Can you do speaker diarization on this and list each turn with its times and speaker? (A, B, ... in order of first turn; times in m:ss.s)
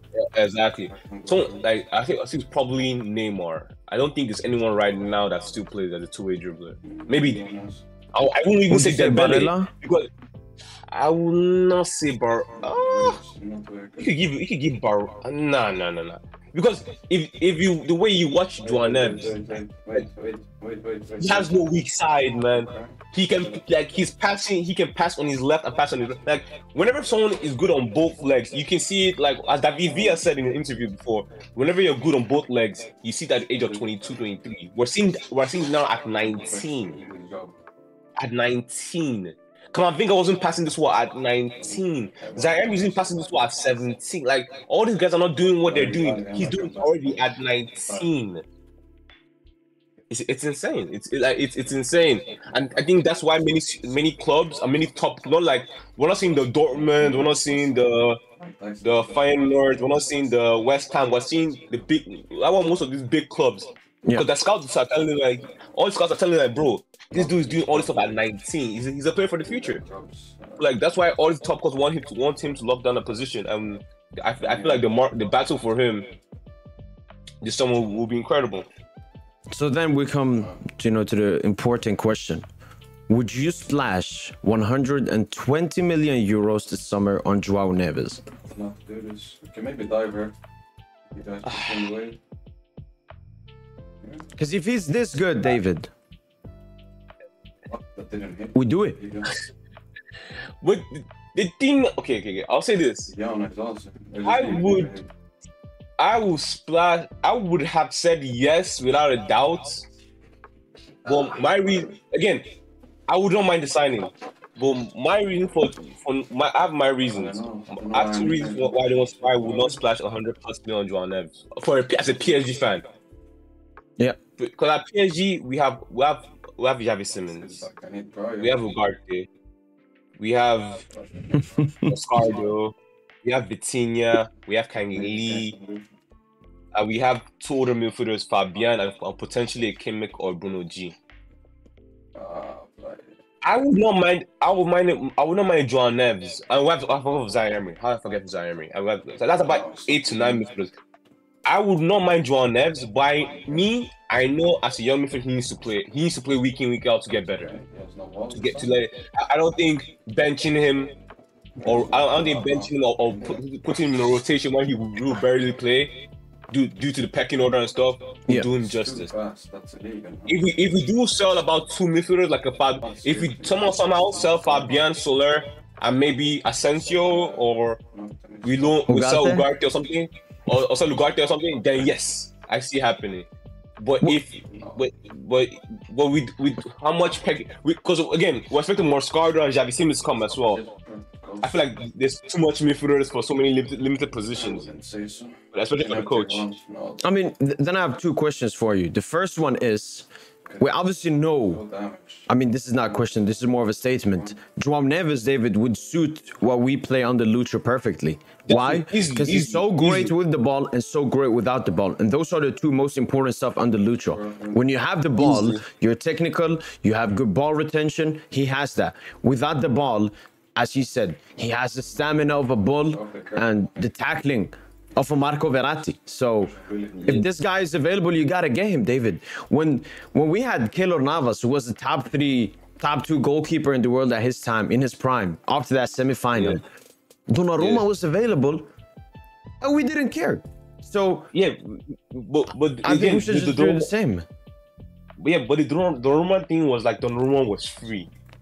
0:00.1-0:07.4 A
0:00.9-0:01.6 B
0:06.8-0:07.8 B
0:08.1-0:10.1 A
0:08.7-0:09.7 C
0:10.9-0:13.2 A
0:12.6-0:14.1 B
0:14.0-0:19.4 A
0:18.6-0:21.6 B
0:21.2-0:37.0 A
0:22.4-0:23.6 B
0:29.9-0:30.2 B
0:33.6-0:34.1 B
0:36.2-0:37.5 B
0:38.2-0:48.4 A
0:41.6-0:43.5 B
0:45.6-0:48.1 B
0:50.1-0:58.2 A
0:56.7-1:00.3 B
0:58.8-1:09.8 A
1:07.1-1:08.2 B
1:09.4-1:10.7 B
1:10.6-1:16.1 A
1:14.4-1:14.9 B
1:17.4-1:18.7 A
1:19.5-1:22.4 C
1:23.1-1:28.2 C
1:28.4-1:30.3 B
1:31.1-1:32.2 B
1:31.4-1:31.9 A
1:34.4-1:35.9 C
1:37.6-1:39.3 B
1:38.5-1:39.0 C
1:40.6-1:43.1 A
1:43.1-1:45.1 B
1:44.2-1:44.9 A
1:46.0-1:49.9 A
1:51.0-1:51.8 B
1:51.0-1:52.4 A
1:53.1-2:02.8 A
1:57.1-1:59.8 B
2:04.4-2:07.6 A
2:07.3-2:08.6 B
2:08.4-2:09.3 A
2:10.2-2:10.8 A
2:10.8-2:12.5 B
2:11.5-2:11.9 C
2:11.9-2:15.5 A
2:14.9-2:15.9 B
2:16.7-2:20.9 A
2:22.1-2:23.2 B
2:23.4-2:30.7 A
2:29.4-2:30.5 B
2:31.4-2:37.5 A
2:37.3-2:38.8 B
2:38.3-2:40.9 A
2:41.6-2:43.4 B
2:41.6-2:49.1 A
2:48.6-2:50.5 B
2:50.3-2:57.8 A
2:52.8-2:54.9 B
2:56.8-2:58.8 B
2:58.4-3:03.3 A
2:58.9-2:59.5 C
3:03.8-3:10.6 A
3:04.5-3:04.8 B
3:10.1-3:11.6 B
3:11.4-3:14.6 A
3:14.3-3:17.0 B
3:15.5-3:16.4 A
3:17.0-3:20.1 C
3:20.6-3:21.6 C
3:21.4-3:22.3 B
3:22.3-3:56.6 C
3:24.1-3:24.4 B
3:28.4-3:30.1 A
3:34.1-3:34.6 B
3:35.2-3:35.6 A
3:42.9-3:43.8 B
3:46.5-3:47.2 B
3:57.3-3:58.7 C
3:57.6-3:57.8 A
3:59.6-4:01.3 C
4:01.3-4:03.9 A
4:02.8-4:04.2 C
4:05.2-4:08.1 A